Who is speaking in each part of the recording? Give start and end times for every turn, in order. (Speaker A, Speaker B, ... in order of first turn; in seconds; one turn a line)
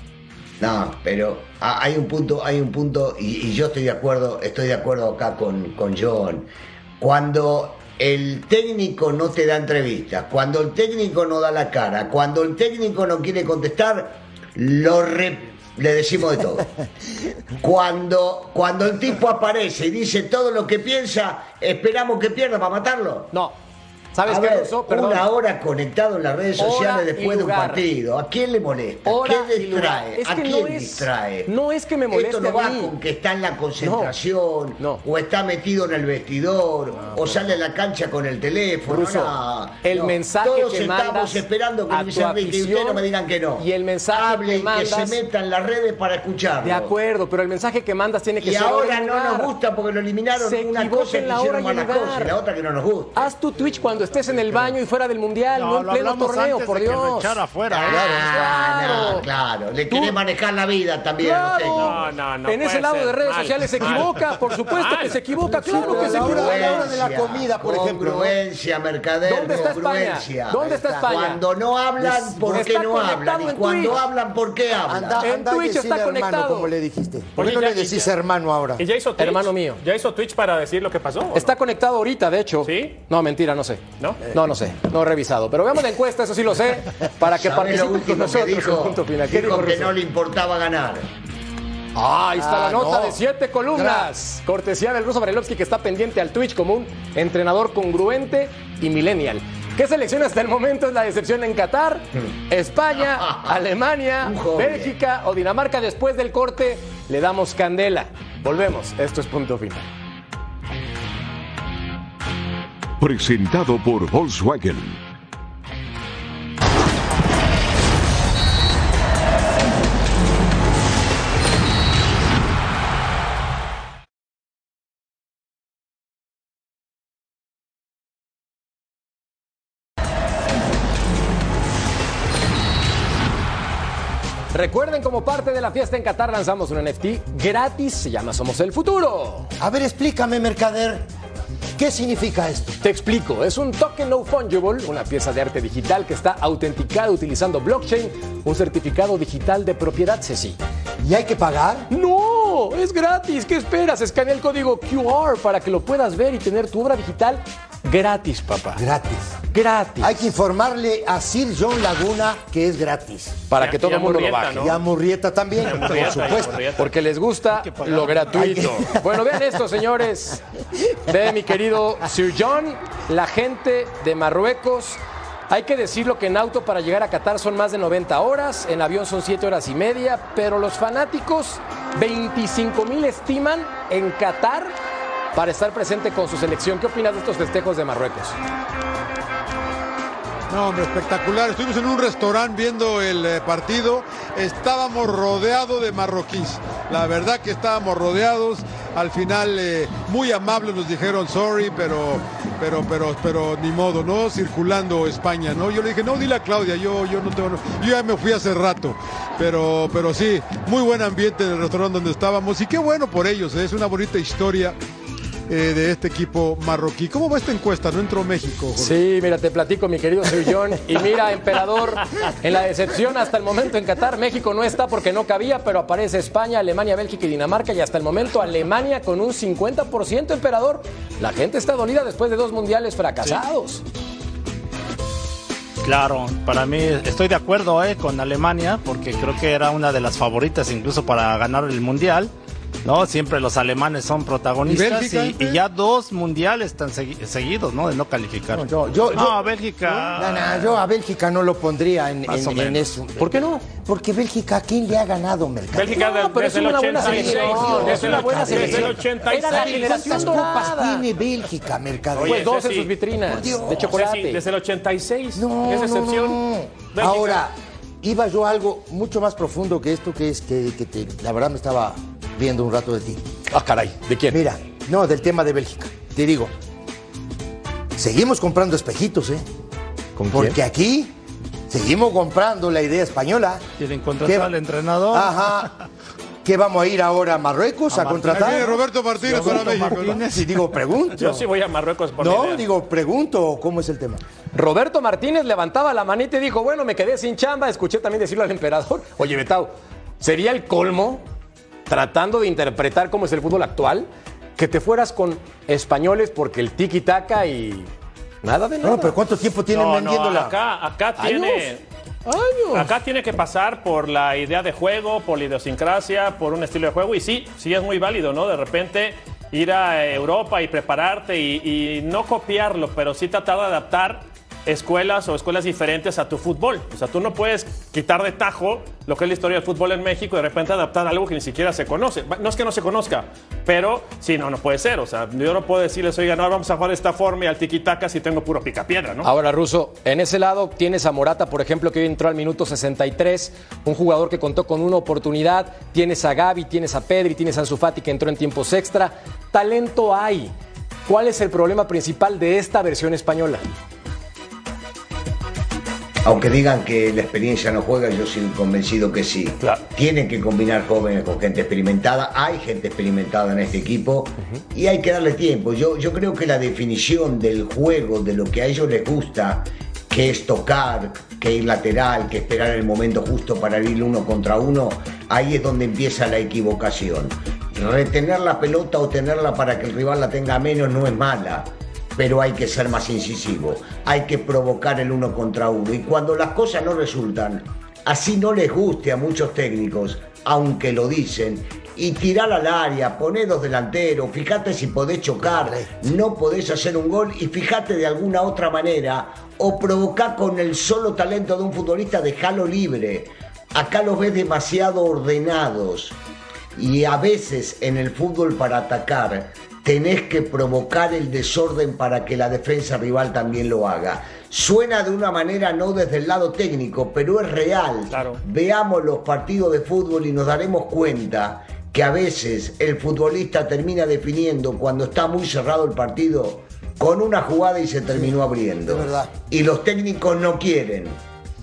Speaker A: 0.6-16.7
Speaker A: 17.6-23.3
Speaker B: 24.1-25.3
Speaker A: 24.2-31.5
Speaker B: 26.6-27.8
Speaker B: 29.1-33.0
Speaker A: 32.1-46.9
Speaker B: 33.8-34.1
Speaker B: 34.8-35.0
Speaker C: 37.0-37.6
Speaker B: 38.9-43.0
Speaker B: 43.6-45.2
Speaker B: 46.6-49.5
Speaker A: 48.4-53.3
Speaker B: 50.4-52.4
Speaker B: 53.1-59.3
Speaker D: 55.5-58.0
Speaker A: 57.7-62.1
Speaker C: 57.9-58.3
Speaker B: 59.9-60.2
Speaker B: 61.2-66.9
Speaker E: 61.7-65.2
Speaker C: 65.5-68.4
Speaker A: 65.7-75.2
Speaker B: 69.2-71.4
Speaker C: 69.5-69.7
Speaker C: 70.6-71.1
Speaker C: 72.0-72.5
Speaker B: 72.4-74.0
Speaker C: 74.8-78.8
Speaker B: 75.2-76.7
Speaker E: 77.3-78.1
Speaker E: 78.8-81.5
Speaker B: 79.2-79.8
Speaker B: 81.3-89.9
Speaker E: 82.6-82.9
Speaker A: 87.2-91.1
Speaker B: 91.9-109.9
Speaker C: 92.3-93.2
Speaker C: 93.7-94.1
Speaker A: 103.1-103.6
Speaker A: 104.2-104.9
Speaker F: 113.0-115.0
Speaker B: 134.5-139.5
Speaker C: 139.6-141.1
Speaker C: 141.8-142.8
Speaker B: 142.8-150.6
Speaker C: 151.0-151.9
Speaker B: 151.9-158.8
Speaker C: 158.8-159.4
Speaker B: 159.5-160.3
Speaker C: 160.0-163.4
Speaker B: 163.5-164.7
Speaker E: 163.6-164.8
Speaker C: 164.6-166.7
Speaker E: 165.6-166.9
Speaker B: 166.8-184.7
Speaker D: 167.5-168.7
Speaker C: 168.3-169.0
Speaker B: 185.3-188.4
Speaker G: 190.5-214.8
Speaker G: 215.5-218.9
Speaker B: 218.8-233.8
Speaker D: 235.8-242.3
Speaker D: 242.8-250.8
Speaker G: 244.6-245.6
Speaker C: 248.5-249.4
Speaker C: 250.1-256.0
Speaker D: 252.3-253.0
Speaker B: 253.2-253.6
Speaker E: 255.7-260.5
Speaker B: 255.9-261.0
Speaker C: 257.0-262.6
Speaker E: 262.1-262.9
Speaker B: 262.2-264.4
Speaker C: 263.2-264.0
Speaker E: 263.5-266.4
Speaker C: 265.3-273.2
Speaker E: 266.9-267.4
Speaker B: 273.5-274.4
Speaker C: 274.3-276.5
Speaker C: 277.9-279.4
Speaker B: 280.1-280.6
Speaker C: 280.3-281.1
Speaker C: 281.7-283.6
Speaker D: 283.8-285.3
Speaker C: 284.2-284.5
Speaker C: 285.1-285.7
Speaker C: 286.4-288.7
Speaker D: 287.9-290.5
Speaker G: 288.2-290.2
Speaker C: 289.3-291.4
Speaker E: 291.2-292.6
Speaker C: 292.2-294.2
Speaker B: 294.5-301.2
Speaker B: 301.9-307.9
Speaker B: 308.4-309.1
Speaker C: 308.8-310.5
Speaker E: 309.7-311.8
Speaker B: 311.2-311.7
Speaker B: 312.2-312.9
Speaker E: 312.7-339.3
Speaker B: 339.2-350.5
Speaker B: 351.1-353.6
Speaker A: 356.2-406.1
Speaker C: 395.5-396.0
Speaker A: 406.8-431.2
Speaker E: 418.1-418.4
Speaker C: 428.9-429.3